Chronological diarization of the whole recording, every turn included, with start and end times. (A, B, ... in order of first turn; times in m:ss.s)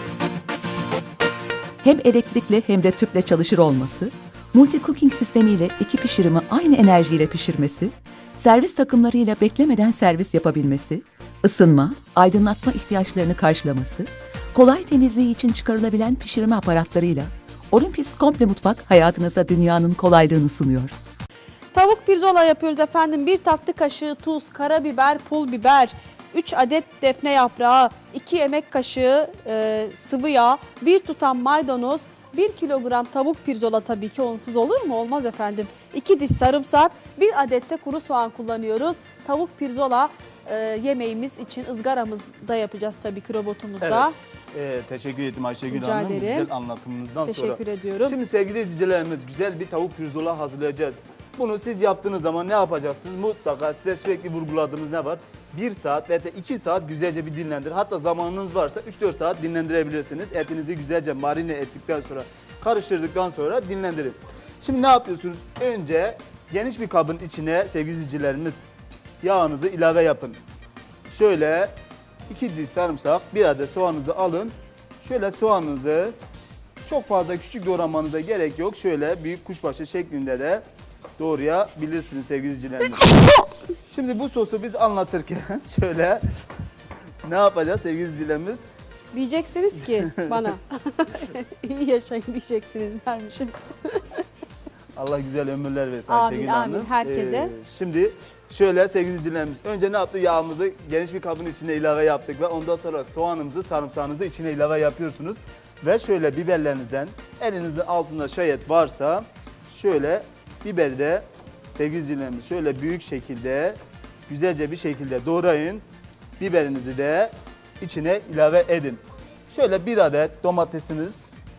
0:01.8-0:21.0 A
0:21.7-0:44.2 B
0:43.8-1:08.6 C
0:45.7-0:46.5 B
0:47.2-0:48.2 B
1:09.2-1:10.4 C
1:11.1-1:11.7 C
1:12.3-1:16.2 C
1:16.8-1:20.6 C
1:21.2-1:23.2 C
1:23.9-1:26.2 C
1:27.2-1:28.6 C
1:29.1-1:34.2 B
1:29.8-1:30.5 C
1:35.0-1:55.8 C
1:36.1-1:37.5 B
1:56.4-2:01.3 C